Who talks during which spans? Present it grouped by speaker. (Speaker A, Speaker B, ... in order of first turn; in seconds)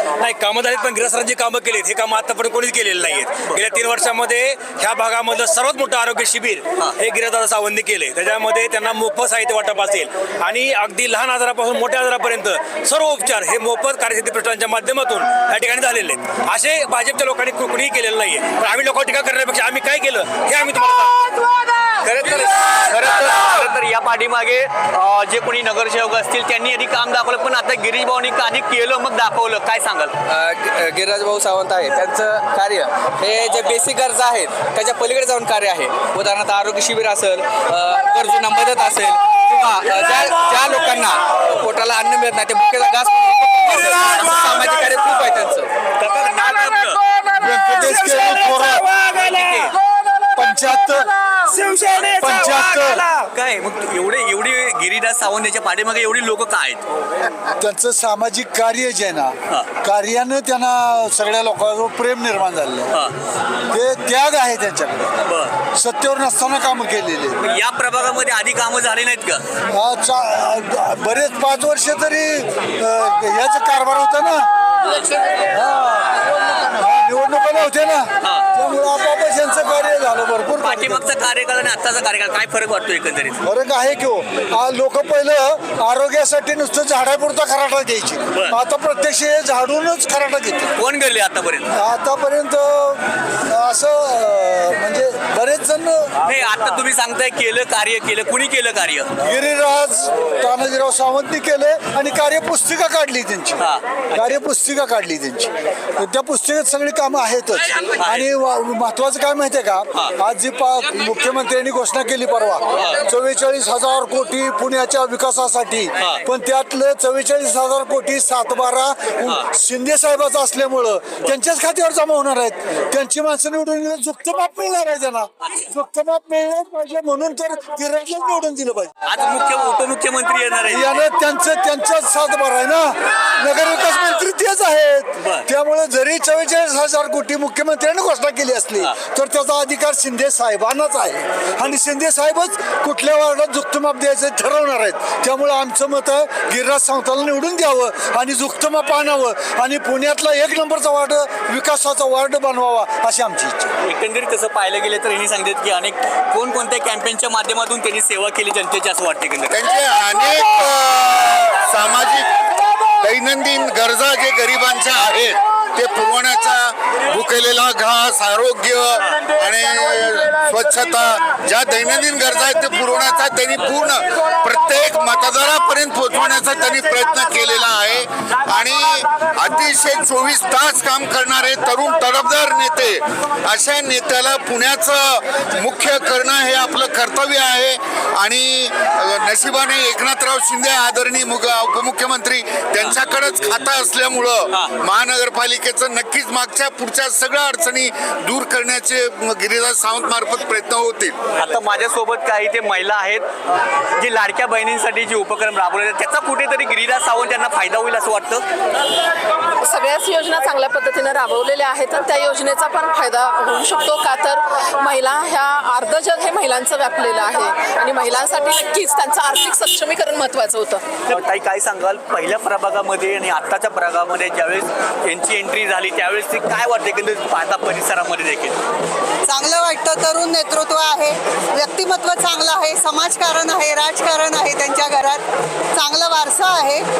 Speaker A: 0.2-21.2
Speaker B: 22.0-30.2, 44.0-45.1, 46.0-47.0, 48.2-49.7, 51.8-52.3, 53.2-56.9, 65.2-65.5, 67.4-69.4, 80.6-83.4, 90.8-91.7, 96.2-99.1, 103.6-104.4, 107.8-108.3, 116.0-116.2, 129.1-131.0, 135.2-135.4, 153.8-159.6, 201.4-203.4, 204.0-208.4, 221.1-228.6
Speaker C: 30.3-45.7
Speaker D: 47.3-48.9, 50.4-51.1, 52.1-53.1, 57.5-63.0, 63.7-65.1, 65.7-67.5, 69.7-74.5, 75.4-81.1, 83.4-90.7, 91.7-96.1, 99.2-128.9, 130.7-153.7
Speaker E: 159.5-201.2
Speaker F: 209.6-220.8
Speaker G: 229.2-235.2, 235.7-236.9